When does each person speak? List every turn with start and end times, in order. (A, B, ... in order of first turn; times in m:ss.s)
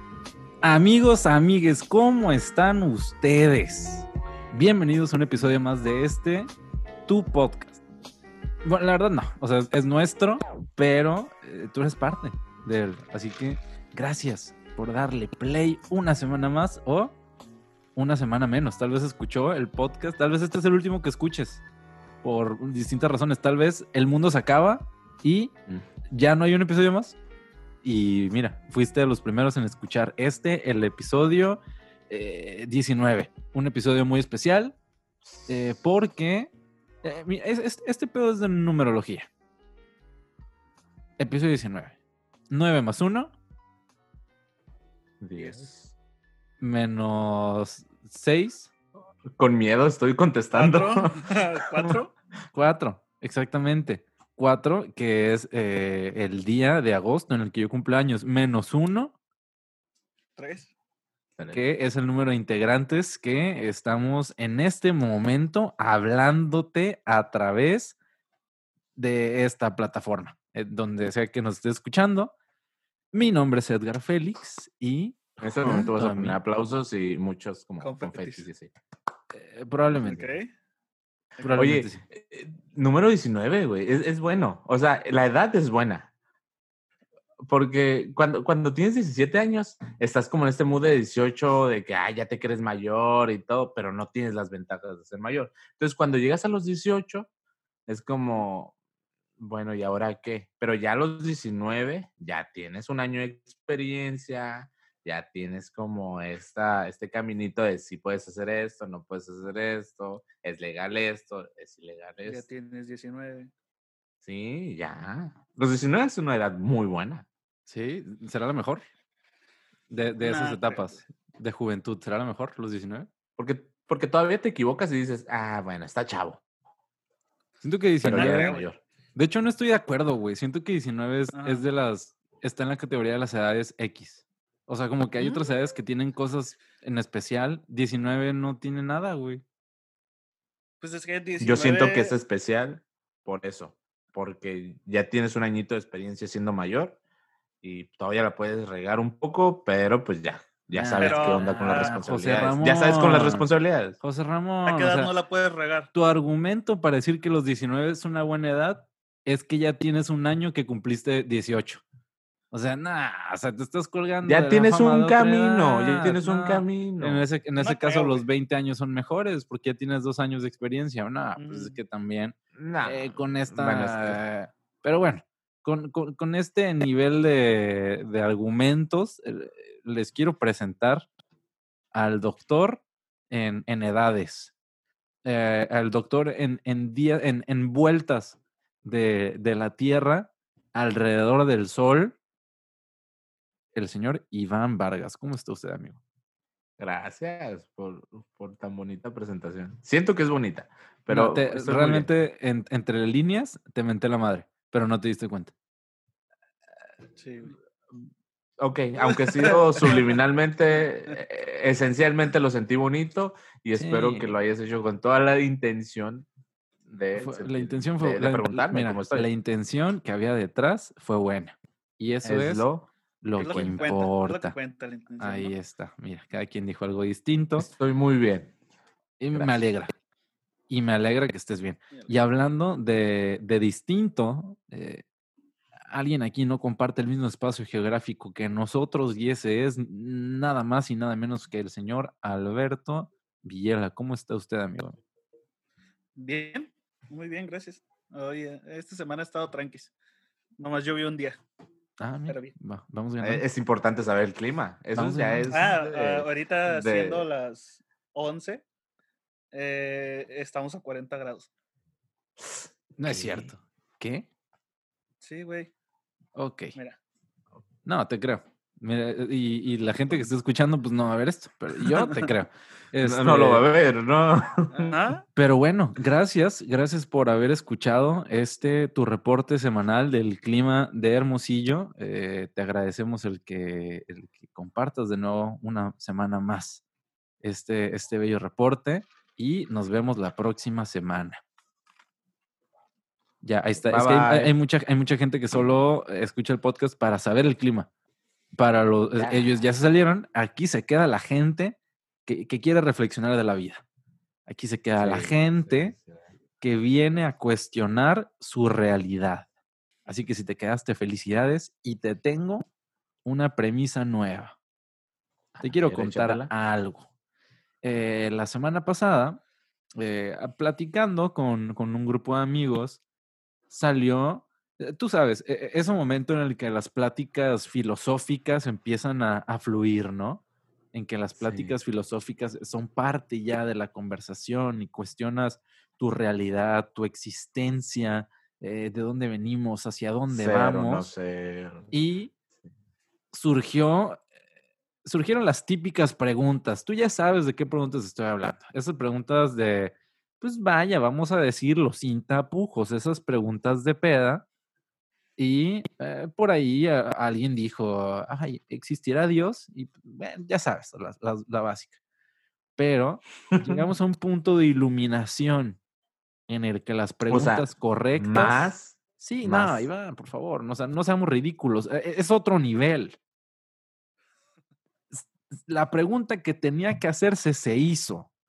0:00.6-0:06.5 A
0:07.1-0:07.8 A
0:08.6-0:17.2 A
0:18.0-0:21.6 A
0:22.2-0:25.5 A
0:26.1-0:27.2 A
0:27.8-0:34.8 A
0:35.5-0:36.5 A
0:37.0-0:39.3 A
0:41.2-0:42.0 A
0:42.5-0:43.3 A
0:45.2-0:45.9 B
0:45.4-0:45.7 C
0:46.6-0:48.7 A
0:49.4-0:51.2 B
0:50.5-0:52.1 C
0:52.5-0:59.2 A
1:00.4-1:00.7 C
1:01.4-1:01.6 B
1:01.5-1:08.0 A
1:09.0-1:12.3 A
1:13.1-1:16.4 A
1:15.4-1:18.7 B
1:17.8-1:18.5 C
1:19.3-1:20.2 A
1:20.0-1:20.5 C
1:21.4-1:22.0 A
1:21.6-1:26.1 B
1:27.4-1:37.3 B
1:37.9-1:38.8 B
1:39.4-1:52.4 B
1:52.3-1:53.5 C
1:54.2-1:57.3 B
1:57.7-1:58.8 A
1:59.9-2:03.1 A
2:00.2-2:01.0 C
2:03.4-2:06.4 B
2:07.6-2:08.5 A
2:08.0-2:08.8 B
2:08.1-2:08.7 C
2:09.1-2:19.4 A
2:11.3-2:11.6 C
2:20.8-2:22.1 C
2:21.4-2:27.0 B
2:27.6-2:34.0 B
2:30.7-2:33.5 A
2:31.0-2:32.0 C
2:34.0-2:35.1 A
2:34.7-2:35.9 C
2:35.9-2:41.8 A
2:42.5-3:01.0 A
2:44.2-2:47.2 B
2:47.6-2:48.2 C
2:51.4-2:51.8 C
2:52.5-2:54.2 B
3:01.9-3:04.5 A
3:05.2-3:12.2 A
3:13.8-3:16.0 A
3:16.8-3:22.1 B
3:21.1-3:25.5 A
3:27.2-3:27.5 C
3:28.6-3:36.2 B
3:29.0-3:30.1 C
3:33.8-3:34.3 A
3:36.9-3:39.3 B
3:37.2-3:42.7 A
3:42.2-3:42.9 B
3:43.2-3:44.6 A
3:43.4-3:45.5 C
3:43.5-3:43.8 B
3:45.2-3:47.7 A
3:47.6-3:48.5 B
3:49.2-3:49.9 A
3:49.3-3:49.6 B
3:50.7-3:55.0 A
3:55.9-4:05.0 A
4:06.2-4:09.9 C
4:10.6-4:11.4 C
4:12.0-4:13.4 A
4:12.3-4:12.6 C
4:13.2-4:17.2 B
4:15.0-4:15.6 A
4:15.5-4:18.6 C
4:19.5-4:21.5 C
4:22.4-4:23.5 B
4:23.0-4:24.3 A
4:25.2-4:25.7 C
4:26.4-4:26.8 A
4:27.9-4:33.7 A
4:33.0-4:35.0 B
4:34.7-4:35.2 C
4:35.4-4:46.8 A
4:47.4-4:51.4 A
4:53.4-4:57.9 A
4:53.8-4:54.5 B
4:58.6-5:03.8 A
4:59.2-4:59.5 B
5:04.5-5:05.9 A
5:05.0-5:06.2 B
5:06.6-5:09.5 A
5:10.1-5:12.7 A
5:13.2-5:14.6 A
5:15.6-5:16.5 B
5:15.6-5:17.1 A
5:17.8-5:19.4 A
5:20.0-5:23.0 A
5:23.7-5:41.1 A
5:31.4-5:31.7 B
5:40.3-5:41.9 B
5:41.9-5:42.3 A
5:43.3-5:44.2 A
5:45.0-5:54.4 A
5:55.4-6:02.0 A
6:02.8-6:05.8 A
6:03.5-6:03.9 B
6:06.5-6:13.2 A
6:07.3-6:09.9 B
6:15.1-6:18.3 A